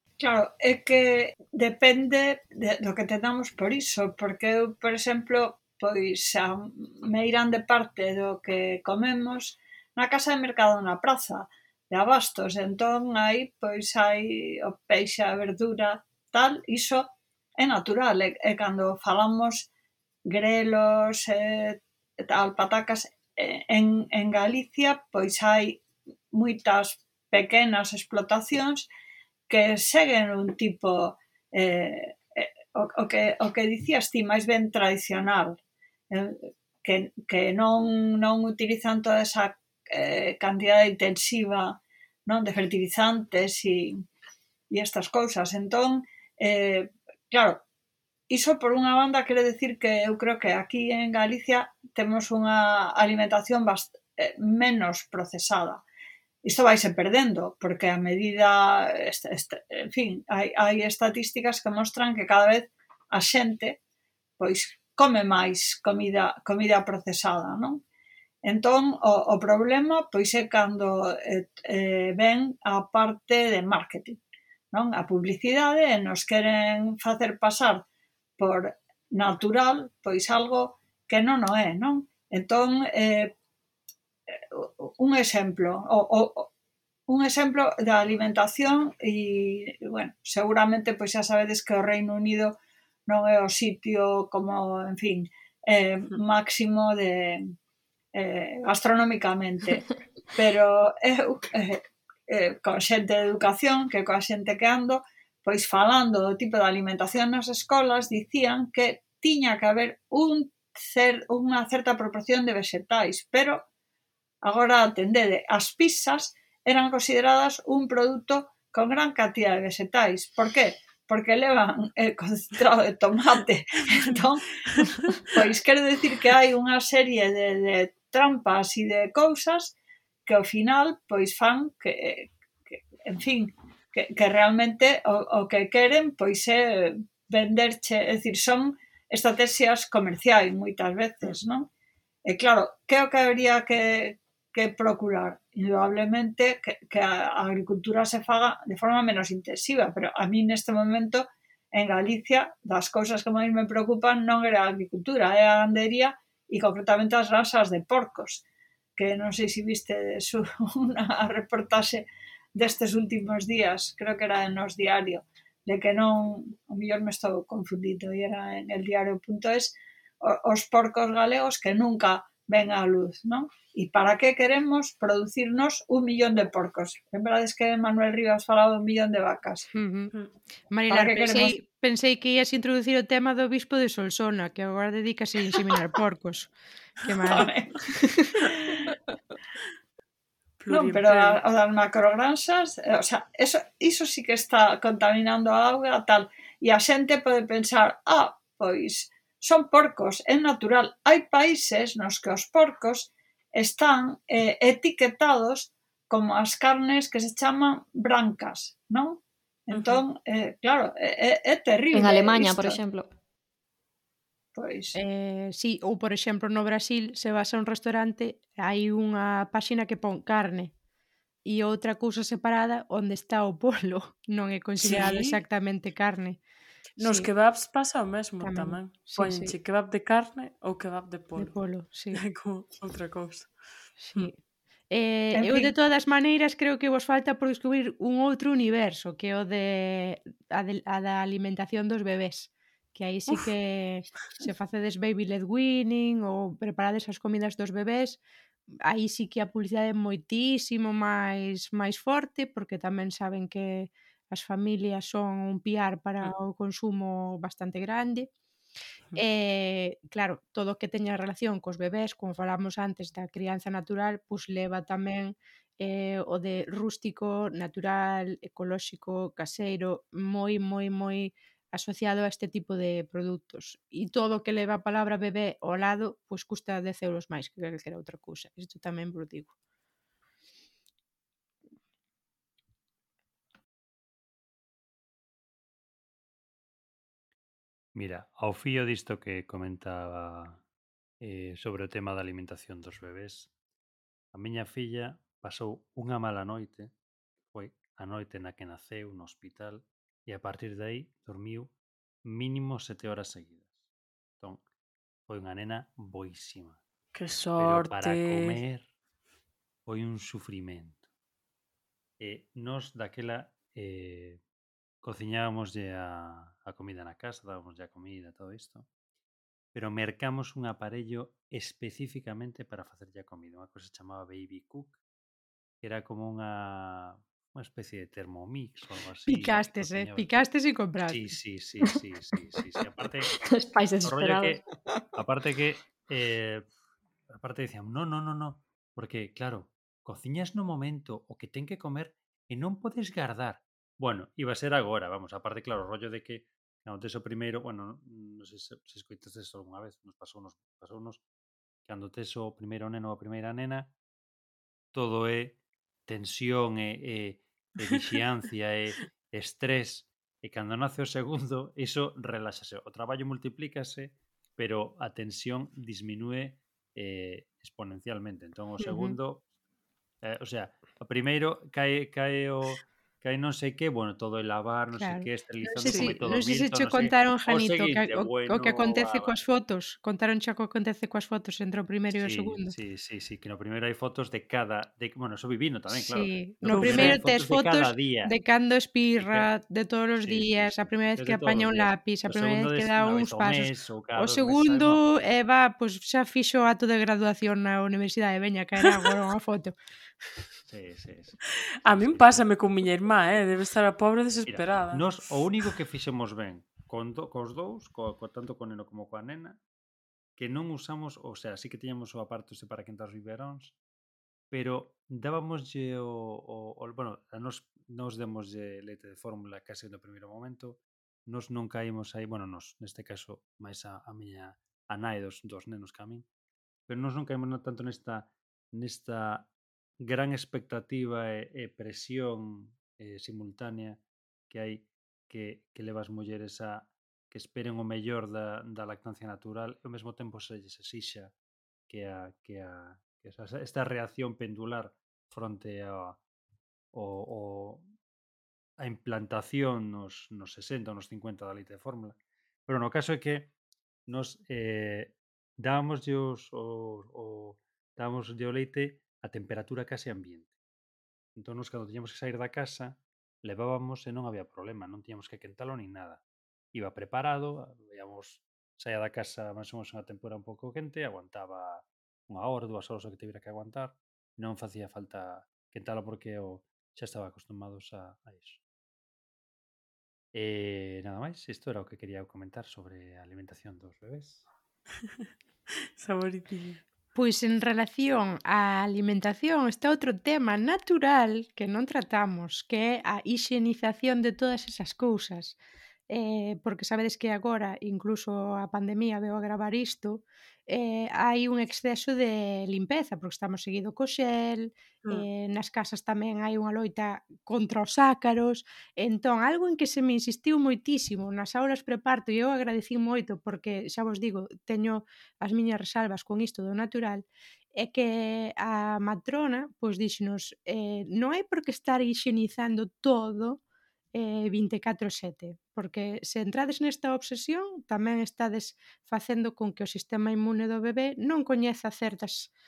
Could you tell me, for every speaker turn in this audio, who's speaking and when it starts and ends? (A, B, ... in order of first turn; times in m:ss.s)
0:00.2-0:19.7 A
0:20.3-0:28.9 A
0:29.5-0:35.6 A
0:36.1-0:44.0 A
0:44.7-0:47.6 A
0:48.3-0:55.8 A
0:56.4-1:03.8 A
1:04.4-1:07.8 A
1:08.4-1:14.2 A
1:14.7-1:17.8 A
1:18.4-1:23.3 A
1:24.5-1:26.5 A
1:27.1-1:32.6 A
1:33.1-1:37.5 A
1:38.2-1:53.6 A
1:54.4-2:09.7 A
2:10.3-2:21.7 A
2:22.3-2:38.4 A
2:39.0-2:59.7 A
2:59.7-3:00.1 B
3:00.7-3:08.4 B
3:00.9-3:01.6 A
3:07.3-3:07.8 A
3:10.6-3:11.4 C
3:10.7-3:32.8 A
3:29.7-3:30.0 C
3:31.9-3:33.1 D
3:34.6-3:35.0 A
3:35.0-3:40.7 B
3:41.4-3:46.4 B
3:44.8-3:45.4 C
3:47.0-3:47.3 B
3:47.0-3:51.6 C
3:48.4-3:49.6 B
3:51.4-3:52.2 B
3:52.1-3:53.6 C
3:54.0-3:54.4 B
3:54.9-4:08.2 B
3:55.4-3:55.7 C
4:08.8-4:18.3 B
4:19.2-4:39.5 B
4:48.0-4:50.6 E
4:51.2-4:53.5 E
4:54.3-4:56.9 E
4:57.5-5:01.7 E
5:02.2-5:03.8 E
5:05.3-5:06.8 E
5:07.1-5:08.6 C
5:07.6-5:08.9 E
5:09.9-5:11.0 E
5:12.2-5:14.4 E
5:15.0-5:18.9 E
5:19.7-5:25.0 E
5:25.8-5:30.3 E
5:29.3-5:31.3 B
5:31.1-5:33.4 E
5:33.4-5:34.6 D
5:34.0-5:34.6 E
5:35.2-5:36.7 E
5:37.3-5:51.2 E
5:51.8-5:53.9 E
5:54.9-6:09.4 E
5:57.8-5:58.2 C
6:10.2-6:19.4 E
6:15.0-6:22.8 B
6:15.8-6:16.2 C
6:22.2-6:28.4 E
6:25.9-6:39.8 B
6:26.6-6:27.2 C
6:29.2-6:29.5 E
6:30.2-6:35.0 E
6:40.7-6:42.5 E
6:41.8-6:45.2 C
6:44.5-6:49.6 E
6:50.4-6:53.8 E
6:54.5-7:06.3 E
7:06.9-7:09.5 E
7:10.0-7:21.3 E
7:21.9-7:26.2 E
7:26.9-7:27.9 E
7:28.8-7:33.5 E
7:34.1-7:40.5 E
7:41.4-7:46.2 E
7:46.7-7:58.6 E
8:00.3-8:04.4 E
8:06.0-8:06.8 C
8:07.2-8:15.6 B
8:16.1-8:43.6 B
8:44.1-8:52.5 B